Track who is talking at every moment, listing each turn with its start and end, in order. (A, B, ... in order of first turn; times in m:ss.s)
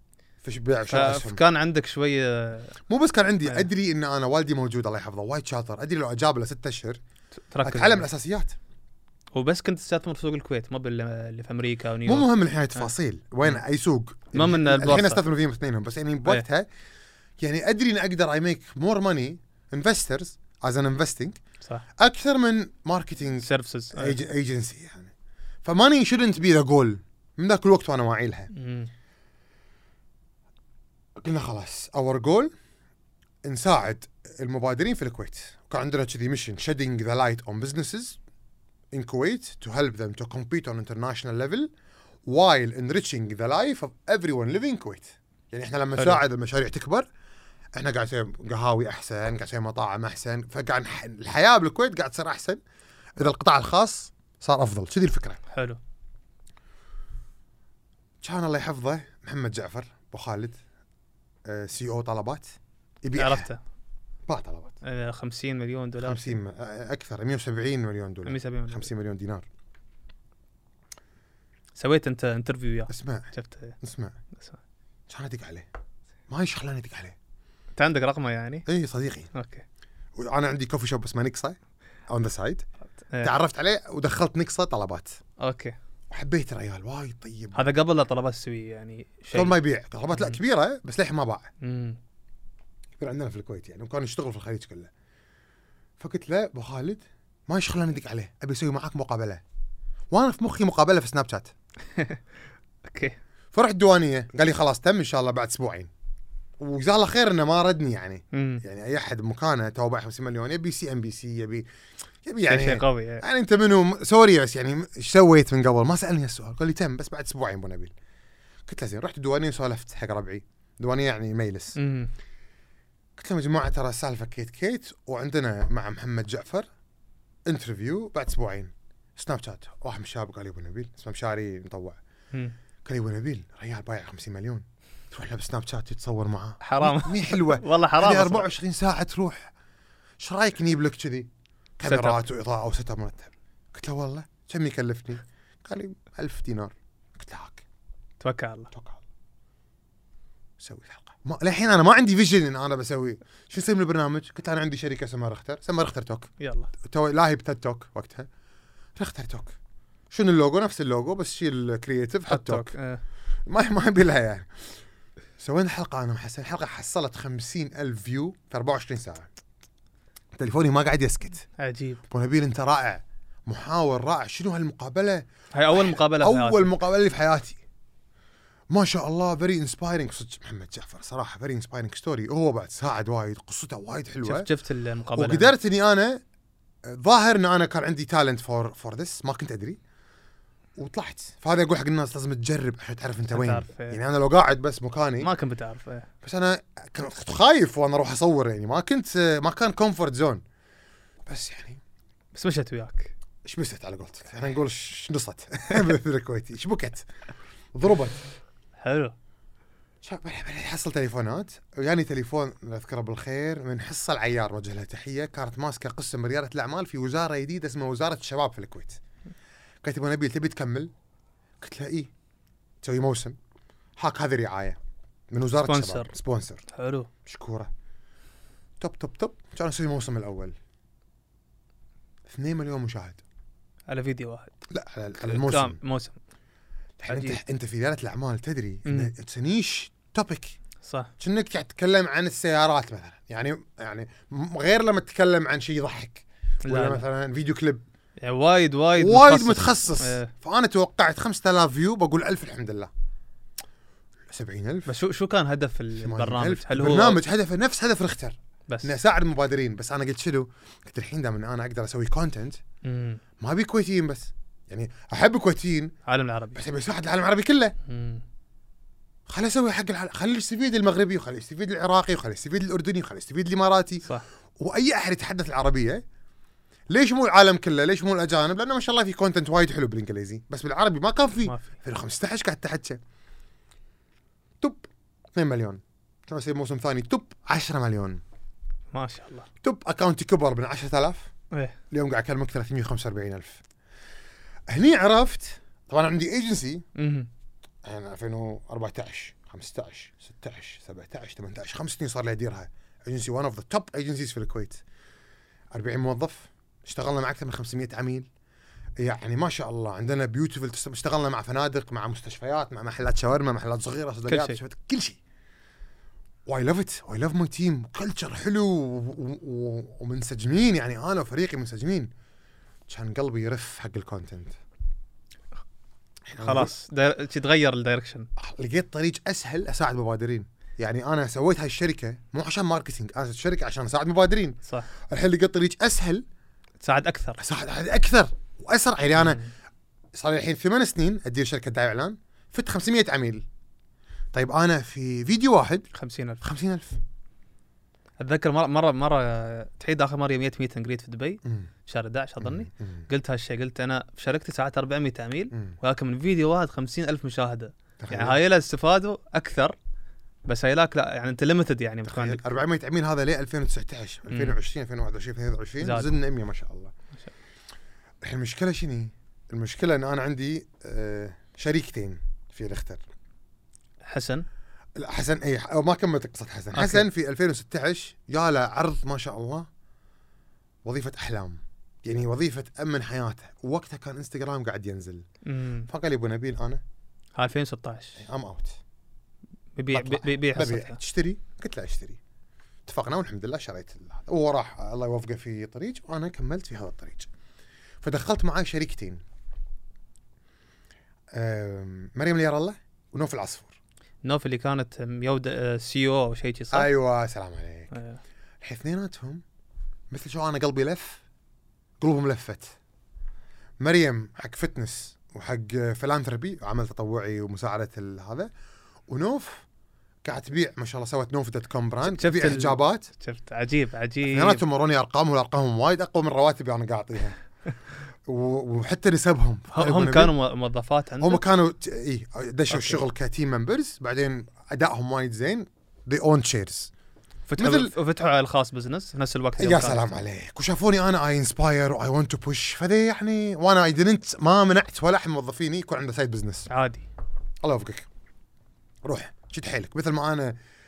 0:00.4-0:01.4 A
0:00.9-0:02.7 B
0:02.9-0:07.0 A
0:07.5-0:08.1 B
0:07.6-0:08.6 A
0:09.3-0:12.9 B
0:12.0-0:16.7 A
0:14.3-0:15.2 B
0:17.4-0:21.4 A
0:22.0-0:25.1 A
0:23.4-0:24.2 B
0:25.6-0:28.5 A
0:28.5-0:28.9 B
0:31.2-0:32.5 A
0:33.4-0:38.2 A
0:38.9-0:41.7 A
0:42.2-0:47.1 A
0:46.0-0:46.2 B
0:47.8-0:52.6 A
0:53.2-0:55.4 A
0:55.5-0:55.8 B
0:58.2-1:00.6 A
1:01.4-1:03.5 A
1:03.1-1:03.6 B
1:04.3-1:04.7 A
1:04.8-1:06.4 B
1:06.0-1:09.4 A
1:08.2-1:08.9 B
1:11.8-1:13.8 B
1:12.9-1:13.3 A
1:13.8-1:14.1 A
1:15.1-1:15.7 A
1:16.3-1:17.2 A
1:17.8-1:18.7 B
1:18.7-1:19.3 A
1:19.3-1:19.6 B
1:20.2-1:21.6 A
1:22.1-1:22.6 A
1:23.1-1:23.3 B
1:23.2-1:25.2 A
1:25.4-1:25.8 B
1:26.1-1:27.7 A
1:27.5-1:29.6 B
1:29.3-1:31.5 A
1:31.6-1:32.0 B
1:33.0-1:34.9 A
1:36.0-1:39.4 A
1:40.1-1:41.5 A
1:41.9-1:42.2 B
1:42.8-1:43.2 B
1:43.5-1:45.9 A
1:46.6-1:51.6 A
1:48.3-1:48.6 B
1:52.2-1:57.9 A
1:52.5-1:53.2 B
1:58.6-2:01.8 A
2:01.8-2:02.1 B
2:03.2-2:06.7 A
2:07.4-2:12.0 A
2:12.8-2:19.5 A
2:16.6-2:18.5 B
2:20.2-2:27.6 A
2:21.8-2:22.2 B
2:28.2-2:28.7 B
2:28.7-2:29.0 A
2:30.6-2:36.3 A
2:36.4-2:36.7 B
2:36.8-2:38.3 A
2:39.0-2:39.5 A
2:40.1-2:42.7 A
2:42.3-2:43.0 B
2:43.5-2:44.5 A
2:45.4-2:49.3 A
2:50.4-2:51.4 A
2:51.6-2:52.0 B
2:52.1-2:57.6 A
2:55.5-2:56.7 B
2:58.7-3:04.5 A
3:04.2-3:05.5 B
3:05.1-3:06.2 A
3:06.8-3:09.8 A
3:10.8-3:15.3 A
3:13.3-3:14.0 B
3:15.2-3:16.1 B
3:16.2-3:20.4 A
3:21.2-3:21.8 A
3:22.3-3:23.1 B
3:23.4-3:27.1 A
3:27.7-3:28.2 A
3:28.8-3:29.1 B
3:30.0-3:39.0 A
3:39.8-3:40.9 A
3:41.6-3:42.1 A
3:42.8-3:43.4 A
3:44.0-3:44.8 A
3:45.3-3:46.6 A
3:45.6-3:46.1 B
3:46.7-3:47.1 B
3:47.2-3:47.7 A
3:48.8-3:50.5 A
3:52.3-3:53.2 A
3:53.9-3:54.5 B
3:54.7-3:55.8 A
3:55.2-3:56.2 B
3:57.0-4:00.6 A
3:57.1-3:57.4 B
3:58.8-3:59.1 B
4:00.8-4:01.1 B
4:01.2-4:07.8 A
4:06.6-4:07.0 B
4:08.2-4:10.3 B
4:09.0-4:12.9 A
4:14.3-4:14.9 A
4:14.8-4:17.2 B
4:16.0-4:22.6 A
4:22.8-4:23.2 B
4:23.4-4:25.9 A
4:26.0-4:26.6 B
4:26.5-4:27.7 A
4:27.8-4:28.2 B
4:29.3-4:34.0 A
4:34.6-4:36.0 A
4:36.9-4:43.0 A
4:41.4-4:41.7 B
4:45.3-4:48.2 A
4:48.9-4:49.5 B
4:49.6-4:51.3 A
4:51.9-4:53.6 A
4:54.7-4:56.8 A
4:56.9-4:57.3 B
4:57.8-5:04.8 A
5:05.7-5:08.3 A
5:09.0-5:15.2 A
5:14.3-5:14.6 B
5:16.4-5:22.1 A
5:22.9-5:24.6 A
5:26.3-5:26.7 A
5:26.4-5:28.3 B
5:28.4-5:36.2 A
5:36.8-5:37.4 B
5:37.4-5:39.4 A
5:39.2-5:39.5 B
5:40.1-5:43.4 A
5:44.3-5:45.9 A
5:45.9-5:46.4 B
5:46.4-5:47.0 A
5:48.2-5:59.8 B
5:51.4-5:51.7 A
5:52.4-5:53.1 A
5:58.0-5:58.4 A
6:00.4-6:02.4 B
6:02.0-6:06.9 A
6:04.3-6:04.6 B
6:05.8-6:06.2 B
6:08.2-6:13.0 A
6:14.0-6:14.4 B
6:15.0-6:19.7 A
6:16.7-6:17.1 B
6:20.8-6:25.2 A
6:25.4-6:25.9 B
6:25.9-6:26.8 A
6:27.4-6:28.2 B
6:28.2-6:28.8 A
6:29.8-6:31.0 B
6:29.9-6:32.2 A
6:32.8-6:37.3 A
6:38.0-6:39.2 A
6:41.3-6:43.8 A
6:44.2-6:46.9 B
6:46.7-6:47.9 A
6:47.9-6:48.2 B
6:48.6-6:49.4 A
6:50.1-6:51.2 A
6:52.0-6:52.7 A
6:53.8-6:58.5 A
6:59.1-6:59.6 A
7:00.2-7:03.1 A
7:02.0-7:04.6 B
7:04.2-7:07.4 A
7:08.2-7:10.3 A
7:09.7-7:11.4 B
7:11.2-7:16.9 A
7:12.7-7:13.0 B
7:17.5-7:20.2 B
7:17.6-7:17.9 A
7:19.6-7:26.7 A
7:26.7-7:27.1 B
7:27.6-7:28.1 A
7:29.0-7:30.6 A